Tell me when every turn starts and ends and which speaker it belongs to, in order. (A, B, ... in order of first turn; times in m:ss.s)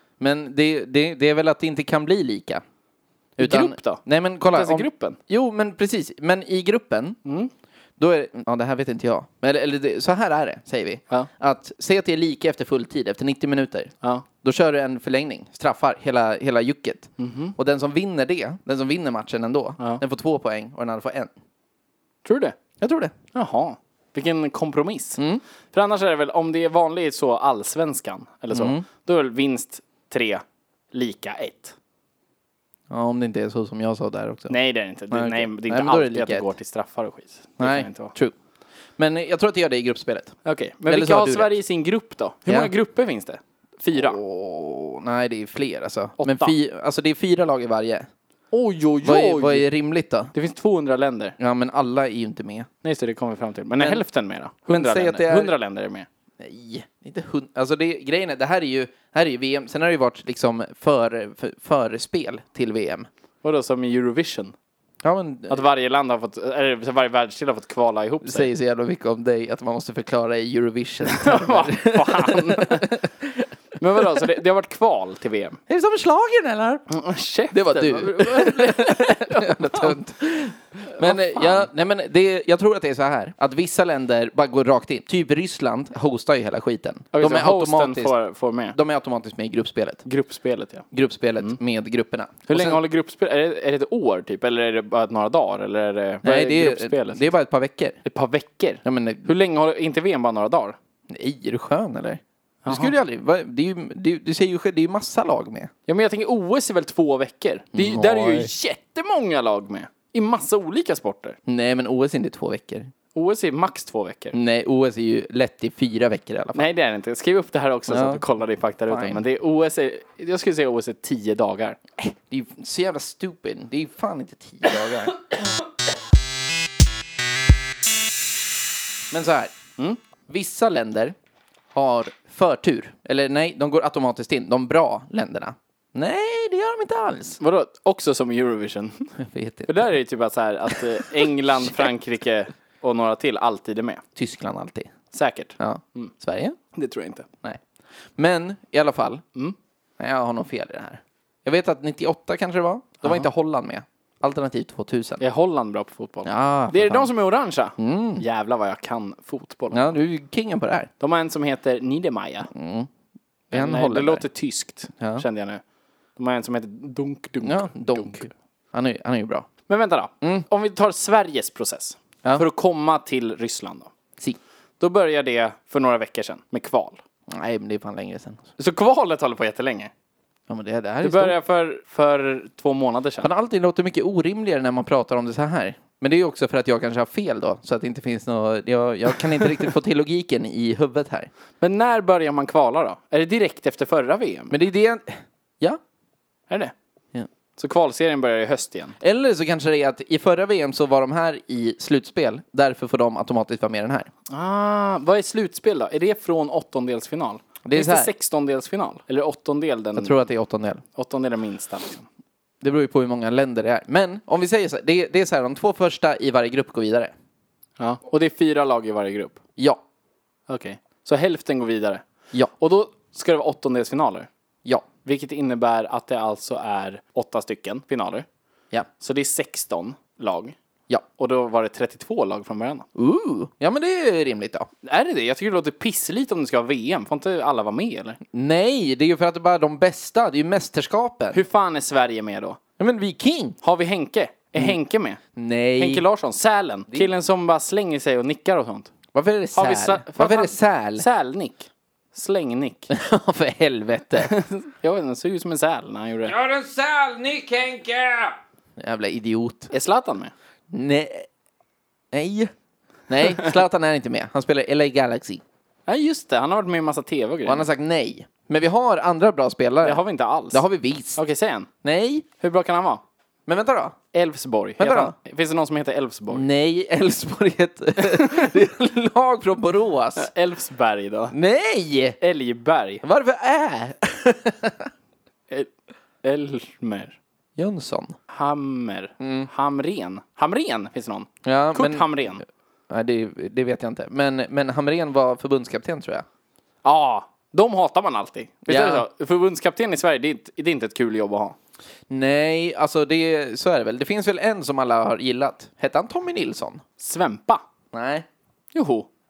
0:00.2-0:02.6 A
0:03.4-0:07.2 A
0:03.4-0:05.2 B
0:07.2-0:07.5 B
0:08.0-0:21.3 A
0:17.2-0:17.5 B
0:22.2-0:22.6 B
0:22.8-0:23.1 A
0:23.3-0:25.2 B
0:25.2-0:25.4 A
0:25.7-0:31.8 B
0:28.5-0:28.8 A
0:32.9-0:34.5 A
0:34.5-0:38.1 B
0:35.1-0:36.5 A
0:37.6-0:38.3 A
0:39.0-0:40.4 A
0:40.4-0:44.2 B
0:40.9-0:41.5 A
0:43.9-0:48.1 A
0:46.2-0:46.5 B
0:48.5-0:49.7 B
0:49.0-0:50.3 A
0:50.3-0:51.4 B
0:51.4-0:52.7 A
0:52.8-0:56.1 B
0:54.7-0:55.5 A
0:56.4-1:03.1 A
1:03.4-1:04.5 B
1:05.0-1:05.6 A
1:05.5-1:08.5 B
1:08.2-1:13.5 A
1:11.0-1:13.0 B
1:13.8-1:15.6 B
1:15.7-1:16.9 A
1:16.9-1:20.0 B
1:17.5-1:28.1 A
1:20.9-1:21.7 B
1:27.1-1:28.8 B
1:28.7-1:30.0 A
1:30.0-1:30.8 B
1:30.9-1:32.8 A
1:32.5-1:37.3 B
1:36.2-1:38.0 A
1:38.0-1:40.8 B
1:38.8-1:39.3 A
1:41.1-1:45.7 A
1:42.6-1:42.9 B
1:45.9-1:51.4 B
1:47.7-1:48.5 A
1:51.5-1:52.9 A
1:53.1-1:54.4 B
1:54.3-1:56.6 A
1:56.5-2:01.8 B
1:57.9-1:58.2 A
1:58.9-1:59.2 A
2:02.0-2:05.2 A
2:09.1-2:09.5 A
2:10.3-2:11.1 A
2:11.7-2:17.4 A
2:17.4-2:19.1 B
2:19.2-2:19.9 A
2:19.7-2:24.0 B
2:20.7-2:21.9 A
2:24.2-2:24.9 A
2:25.1-2:26.1 B
2:25.6-2:26.6 A
2:26.7-2:27.3 B
2:28.2-2:29.2 A
2:30.0-2:35.2 A
2:35.2-2:39.9 B
2:36.2-2:37.1 A
2:37.8-2:38.2 A
2:39.7-2:40.9 A
2:41.0-2:42.5 B
2:42.5-2:42.9 A
2:43.5-2:45.6 B
2:43.5-2:44.2 A
2:46.2-2:48.3 B
2:47.4-2:49.5 A
2:49.7-2:53.9 B
2:54.8-2:57.0 B
2:57.3-2:58.4 A
2:58.6-2:59.9 B
3:00.5-3:01.4 A
3:01.0-3:03.3 B
3:03.2-3:11.3 A
3:11.6-3:14.6 B
3:14.5-3:15.8 A
3:17.6-3:19.0 B
3:19.0-3:24.1 A
3:24.3-3:30.2 B
3:27.6-3:28.1 A
3:30.0-3:30.8 A
3:30.9-3:32.1 B
3:32.6-3:37.1 A
3:37.8-3:39.4 B
3:40.5-3:42.0 B
3:42.6-3:44.3 B
3:45.0-3:48.2 B
3:49.0-3:50.6 B
3:51.2-3:52.9 B
3:52.9-3:54.7 A
3:54.8-3:58.2 B
3:58.3-4:01.4 A
4:01.3-4:02.6 B
4:02.8-4:03.6 A
4:03.6-4:05.2 B
4:05.3-4:06.0 A
4:05.8-4:08.9 B
4:09.1-4:11.0 A
4:09.5-4:12.9 B
4:12.9-4:14.3 A
4:14.2-4:16.3 B
4:16.2-4:19.7 A
4:19.7-4:20.3 B
4:20.7-4:21.3 A
4:22.1-4:22.5 A
4:23.1-4:25.4 A
4:25.9-4:27.6 B
4:27.4-4:31.2 A
4:29.8-4:30.6 B
4:31.2-4:31.7 B
4:31.8-4:32.2 A
4:32.4-4:33.0 B
4:33.5-4:34.0 A
4:34.1-4:36.4 B
4:34.8-4:35.1 A
4:36.3-4:40.3 A
4:40.2-4:41.3 B
4:41.3-4:42.2 A
4:42.2-4:43.0 B
4:43.0-4:44.9 A
4:46.2-4:47.2 B
4:47.6-4:48.2 A
4:48.3-4:52.4 B
4:49.2-4:49.5 A
4:51.4-4:52.1 A
4:52.9-4:56.2 A
4:56.8-5:01.6 B
4:58.7-4:59.0 A
5:02.1-5:06.8 A
5:07.0-5:07.6 B
5:07.9-5:08.2 A
5:08.7-5:09.1 B